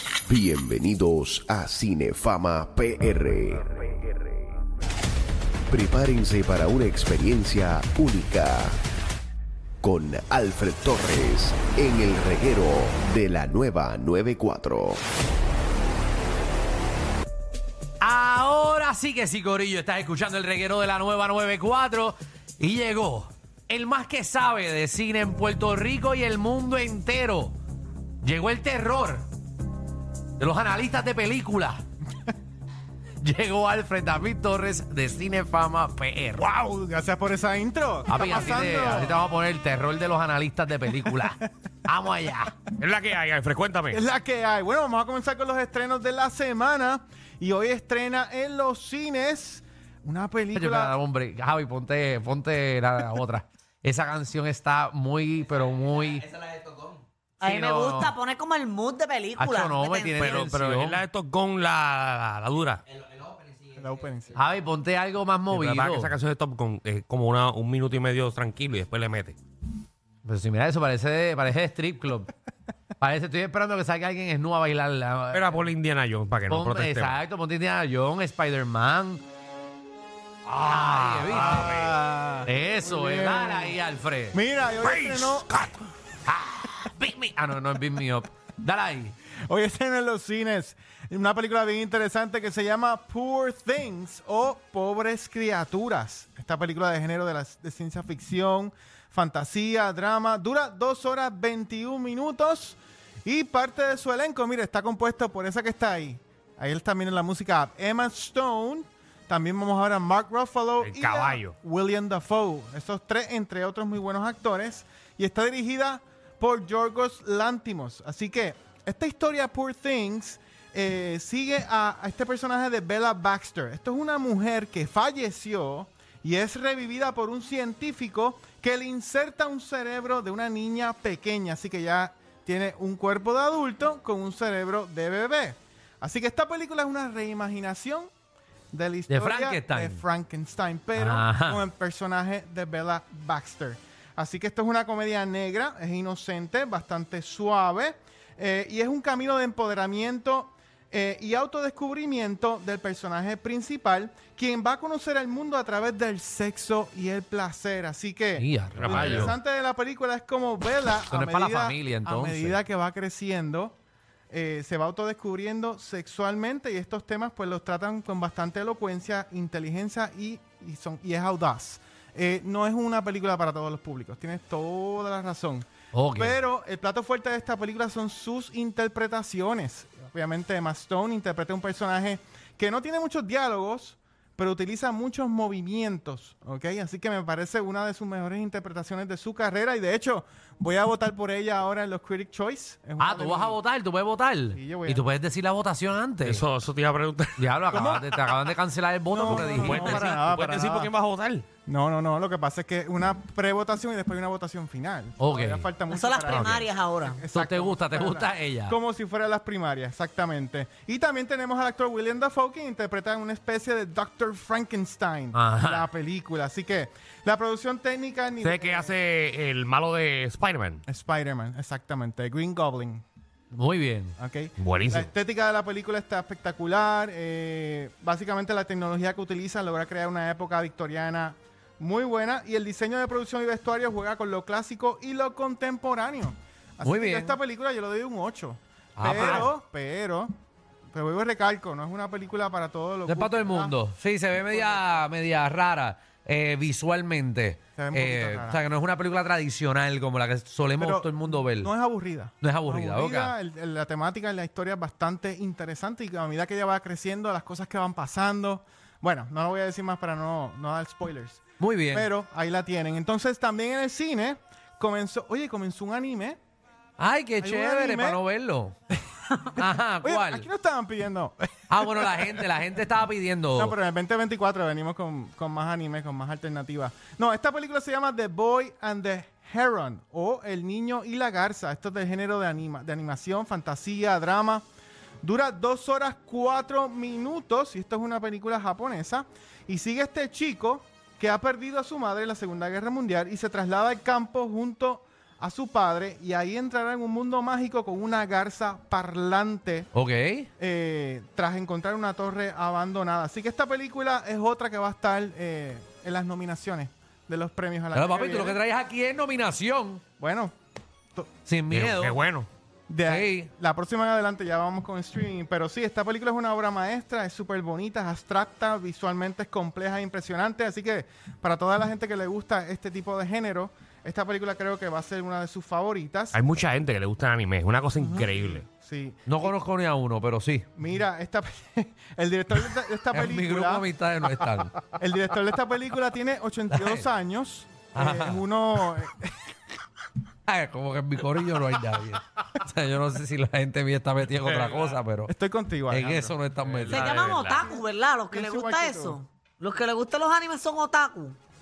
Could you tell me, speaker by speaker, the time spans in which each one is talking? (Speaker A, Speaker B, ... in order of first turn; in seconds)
Speaker A: 0.3-3.7, 5.7-8.8, 9.8-15.0
Speaker B: 18.0-27.6, 28.2-29.2, 30.4-31.8, 33.2-36.5, 38.1-42.6, 50.5-56.3, 57.4-58.1, 59.4-61.0, 64.3-66.1, 70.2-72.3, 73.0-75.7, 76.5-79.2, 80.6-81.9, 82.5-84.4, 86.3-89.2, 139.1-140.0, 141.0-141.6, 158.4-159.3, 161.1-162.6, 175.9-176.4, 193.0-196.4, 197.4-200.2, 205.2-205.7, 207.3-208.8, 215.3-215.9, 223.5-224.2, 236.8-237.4, 239.0-239.5, 243.1-251.7, 252.4-253.4, 261.6-262.1, 267.0-268.7, 269.5-270.5, 271.7-273.8, 299.9-300.5, 307.9-310.0, 311.5-312.2, 313.1-313.5, 329.3-330.7, 333.1-334.8, 336.7-337.1, 337.9-338.4, 340.5-345.3, 345.9-347.2
Speaker C: 36.4-39.2, 43.9-51.0, 63.7-64.4, 81.3-83.8, 84.3-85.5, 89.5-138.1, 138.7-163.8, 164.3-193.6, 194.5-195.1, 197.7-198.1, 199.1-200.9, 201.7-219.0, 220.9-223.0, 224.2-240.3, 240.9-243.8, 244.3-245.1, 247.8-248.6, 250.8-266.4, 267.4-268.2, 269.6-272.6, 273.5-284.6, 285.2-299.9, 300.6-308.6, 310.2-310.5, 312.9-326.4, 328.0-329.6, 330.8-333.9, 334.8-339.4, 345.3-346.4, 348.3-349.2
Speaker D: 42.8-44.0, 60.2-62.8, 65.5-69.4, 75.3-77.2, 80.5-82.0, 84.8-85.7, 110.8-111.5, 158.8-159.3, 196.2-197.8, 199.3-201.5, 218.4-220.8, 224.6-225.1, 311.7-312.5, 326.3-328.7, 344.4-345.0, 346.7-347.7
Speaker E: 57.4-60.4, 205.9-207.2, 346.9-351.4